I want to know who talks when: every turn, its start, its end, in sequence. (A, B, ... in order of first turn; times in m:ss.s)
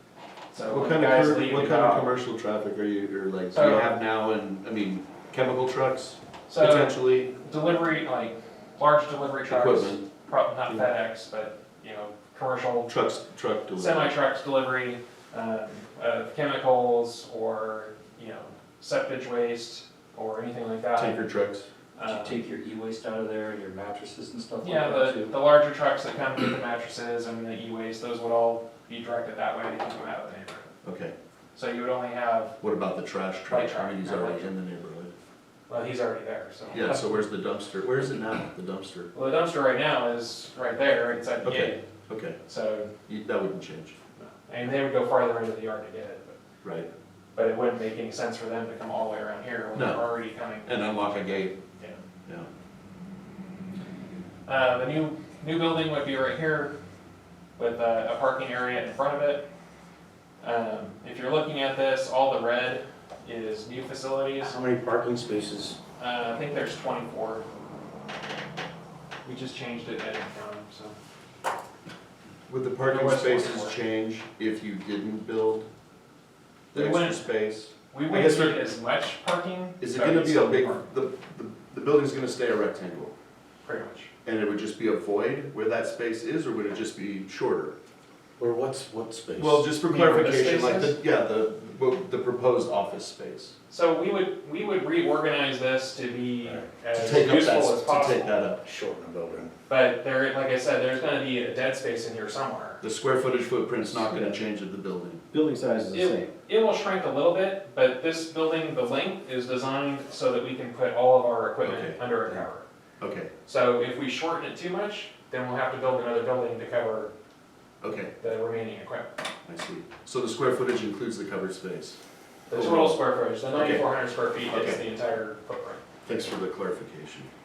0:00.5-0:02.1 A
0:00.7-0:07.3 B
0:03.5-0:04.0 A
0:06.5-0:12.9 A
0:09.5-0:10.0 B
0:12.9-0:14.1 B
0:13.8-0:21.2 A
0:21.0-0:21.7 B
0:21.9-0:22.4 A
0:22.1-0:25.3 C
0:24.6-0:30.7 A
0:30.8-0:31.1 B
0:31.5-0:32.6 A
0:32.6-0:35.1 B
0:33.5-0:34.5 A
0:35.7-0:37.2 A
0:36.7-0:39.1 B
0:39.1-0:41.8 A
0:41.4-0:42.4 B
0:42.4-0:42.9 A
0:43.1-0:44.0 B
0:44.2-0:46.4 A
0:46.6-0:46.9 B
0:47.3-0:52.0 A
0:49.7-0:50.0 B
0:50.6-0:51.6 B
0:54.4-0:56.7 A
0:57.6-0:59.4 A
1:00.4-1:04.6 A
1:04.4-1:05.8 D
1:06.0-1:07.4 A
1:09.2-1:10.9 A
1:12.5-1:15.7 B
1:12.8-1:13.8 A
1:16.7-1:18.7 B
1:16.7-1:17.2 A
1:17.9-1:20.9 A
1:19.8-1:23.1 B
1:23.6-1:24.1 A
1:24.2-1:27.7 B
1:28.4-1:29.6 D
1:29.4-1:33.5 B
1:29.8-1:31.0 A
1:33.7-1:38.4 A
1:36.9-1:38.6 B
1:38.6-1:39.5 D
1:39.7-1:42.8 A
1:42.8-1:45.2 B
1:43.9-1:44.3 D
1:45.3-1:46.2 D
1:45.9-1:52.6 A
1:51.6-1:52.0 B
1:53.0-1:53.3 B
1:53.4-1:57.1 A
1:57.8-1:58.1 B
1:58.2-1:59.1 A
1:59.4-2:02.0 B
2:02.5-2:05.8 A
2:02.5-2:03.0 B
2:03.5-2:03.8 B
2:04.5-2:04.8 B
2:06.0-2:07.3 B